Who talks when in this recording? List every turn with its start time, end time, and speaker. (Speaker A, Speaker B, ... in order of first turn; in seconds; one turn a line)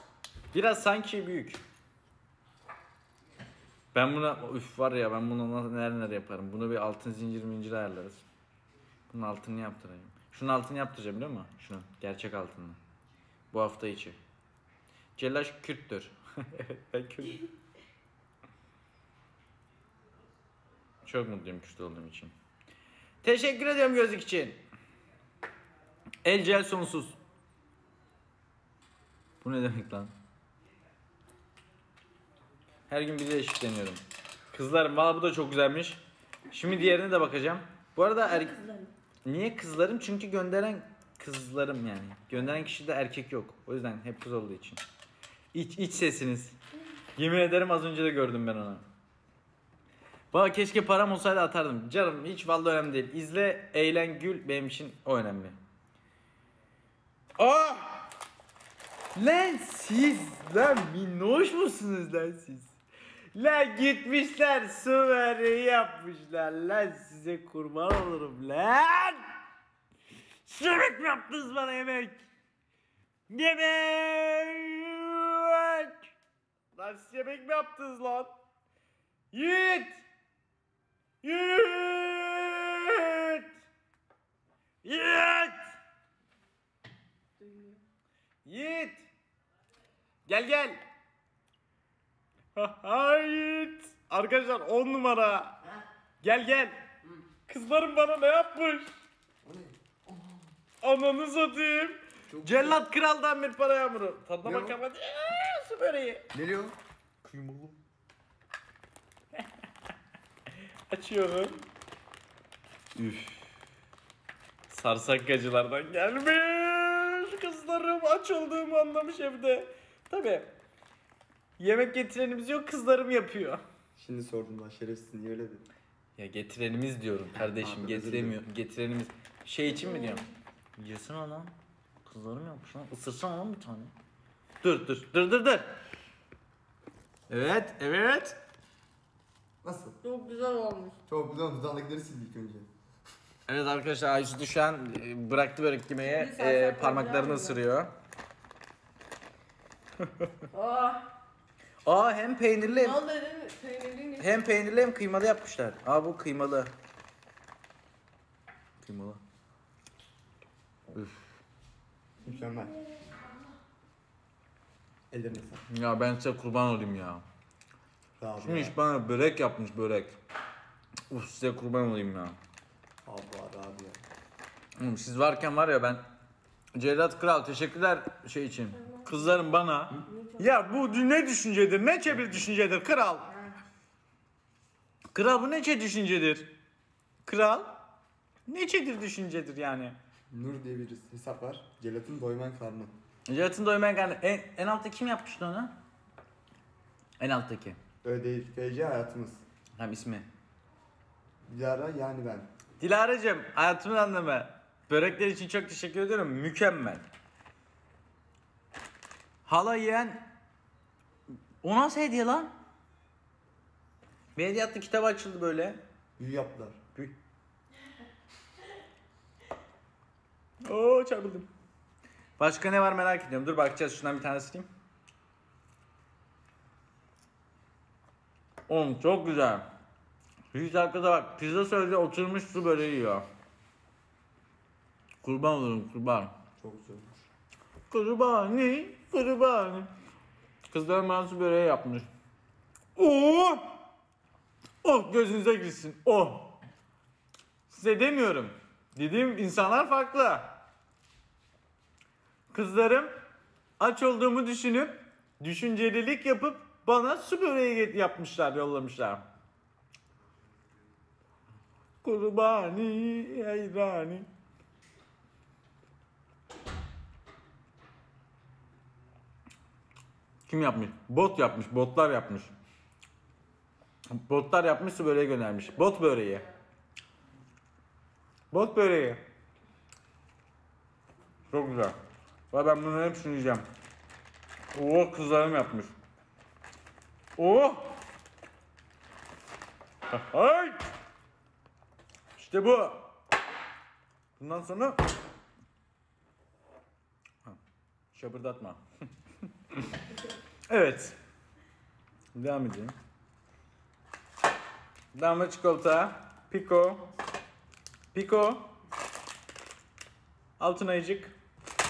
Speaker A: 0.5-1.6
Speaker A: 3.9-8.2
Speaker A: 9.1-12.8
Speaker A: 13.5-14.2
Speaker A: 15.2-17.5
Speaker A: 21.0-22.3
Speaker A: 23.2-24.6
Speaker A: 26.2-27.2
Speaker A: 29.4-30.1
Speaker A: 32.9-34.0
Speaker A: 34.5-38.5
Speaker B: 38.2-38.9
Speaker A: 39.2-44.8
Speaker A: 45.5-46.6
Speaker A: 47.1-48.8
Speaker A: 50.3-55.6
Speaker A: 57.4-58.1
Speaker A: 59.1-62.7
Speaker A: 63.3-69.3
Speaker A: 70.5-72.2
Speaker A: 73.3-76.1
Speaker A: 76.7-78.3
Speaker A: 79.3-80.0
Speaker A: 81.2-83.5
Speaker A: 84.8-85.7
Speaker B: 87.4-87.8
Speaker A: 88.5-89.1
Speaker A: 90.3-90.8
Speaker A: 92.5-95.6
Speaker A: 96.2-96.8
Speaker A: 97.5-98.9
Speaker C: 99.4-100.5
Speaker A: 100.8-106.3
Speaker C: 102.3-102.8
Speaker C: 104.4-104.8
Speaker C: 106.3-106.8
Speaker A: 107.2-107.8
Speaker A: 110.9-111.6
Speaker A: 113.0-113.5
Speaker A: 114.7-120.5
Speaker A: 121.6-123.6
Speaker C: 124.0-125.7
Speaker A: 126.2-130.2
Speaker C: 127.6-128.4
Speaker B: 129.6-130.3
Speaker A: 130.8-131.5
Speaker A: 132.0-133.9
Speaker A: 134.6-135.7
Speaker A: 137.3-138.4
Speaker C: 139.6-140.0
Speaker B: 140.0-141.0
Speaker C: 141.1-142.7
Speaker A: 143.5-147.9
Speaker B: 146.0-147.6
Speaker A: 150.0-150.3
Speaker B: 150.5-151.1
Speaker A: 151.8-153.0
Speaker B: 152.6-154.4
Speaker A: 154.2-156.7
Speaker A: 158.8-159.2
Speaker A: 160.9-161.3
Speaker C: 162.2-162.7
Speaker B: 162.2-163.3
Speaker C: 165.1-165.6
Speaker A: 165.7-167.2
Speaker C: 168.2-168.8
Speaker A: 168.4-170.2
Speaker A: 171.1-172.4
Speaker C: 173.0-174.0
Speaker A: 174.8-176.1
Speaker A: 176.7-183.3
Speaker B: 178.8-179.3
Speaker B: 180.0-180.8
Speaker A: 185.1-186.5
Speaker A: 187.2-187.8
Speaker A: 188.5-190.0
Speaker C: 190.3-192.9
Speaker A: 193.3-195.8
Speaker A: 197.2-197.8
Speaker C: 198.0-199.4
Speaker A: 199.8-200.3
Speaker C: 201.4-202.5
Speaker A: 202.8-207.1
Speaker A: 209.4-210.2
Speaker A: 211.6-212.5
Speaker A: 214.3-215.8
Speaker C: 216.2-216.8
Speaker A: 220.6-221.5
Speaker A: 222.4-224.7
Speaker A: 228.7-229.7
Speaker A: 230.5-233.2
Speaker A: 235.2-236.3
Speaker C: 236.6-237.1
Speaker A: 237.9-239.9
Speaker A: 240.7-242.1
Speaker A: 242.9-243.8
Speaker A: 244.8-246.6
Speaker A: 247.7-250.6
Speaker A: 252.5-253.1
Speaker A: 253.8-259.3
Speaker A: 262.0-264.3
Speaker A: 270.5-272.5
Speaker A: 274.1-276.4
Speaker A: 278.5-279.2
Speaker A: 281.5-282.0
Speaker A: 282.5-283.6
Speaker A: 284.7-285.9
Speaker A: 287.4-288.0
Speaker A: 290.1-290.9
Speaker A: 292.4-293.1
Speaker A: 294.4-295.0
Speaker A: 298.1-298.8
Speaker A: 300.7-301.1
Speaker A: 302.3-302.9
Speaker A: 305.1-307.1
Speaker A: 308.1-308.8
Speaker A: 310.6-311.3